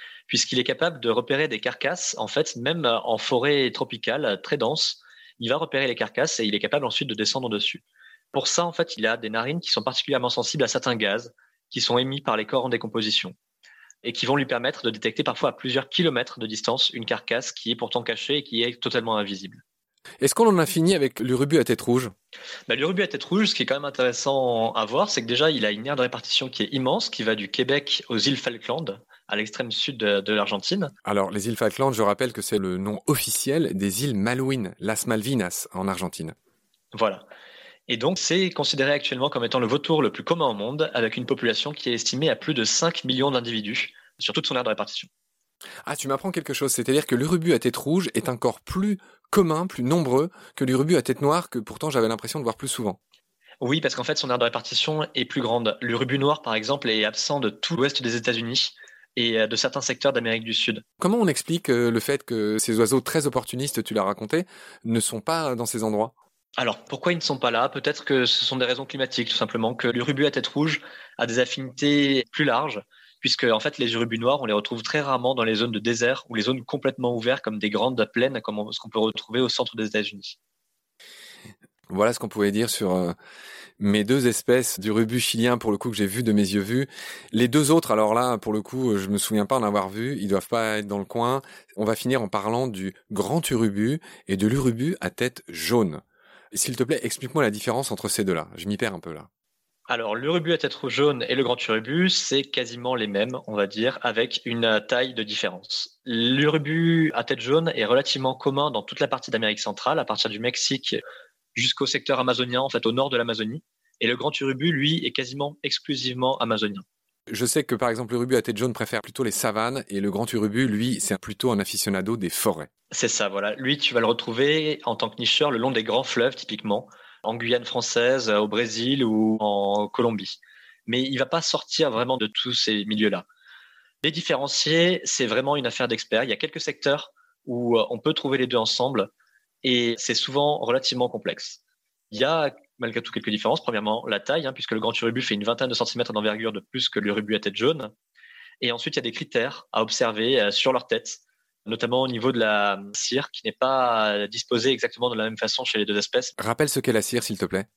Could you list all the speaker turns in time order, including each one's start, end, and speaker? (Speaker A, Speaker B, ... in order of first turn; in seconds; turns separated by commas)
Speaker A: 0.3-13.3, Speaker A: 14.0-19.6, Speaker B: 20.2-22.1, Speaker A: 22.7-30.9, Speaker B: 31.0-36.3, Speaker A: 36.9-37.2, Speaker A: 37.9-45.1, Speaker B: 45.9-53.0, Speaker A: 53.6-60.8, Speaker B: 61.0-66.1, Speaker A: 66.6-80.4, Speaker B: 81.9-83.1, Speaker B: 83.8-96.0, Speaker B: 96.5-99.3, Speaker A: 99.9-111.0, Speaker A: 111.5-116.8, Speaker B: 117.3-122.7, Speaker A: 122.9-133.2, Speaker A: 134.0-139.1, Speaker A: 139.6-141.6, Speaker A: 142.1-147.9, Speaker A: 148.6-156.3, Speaker B: 156.4-157.7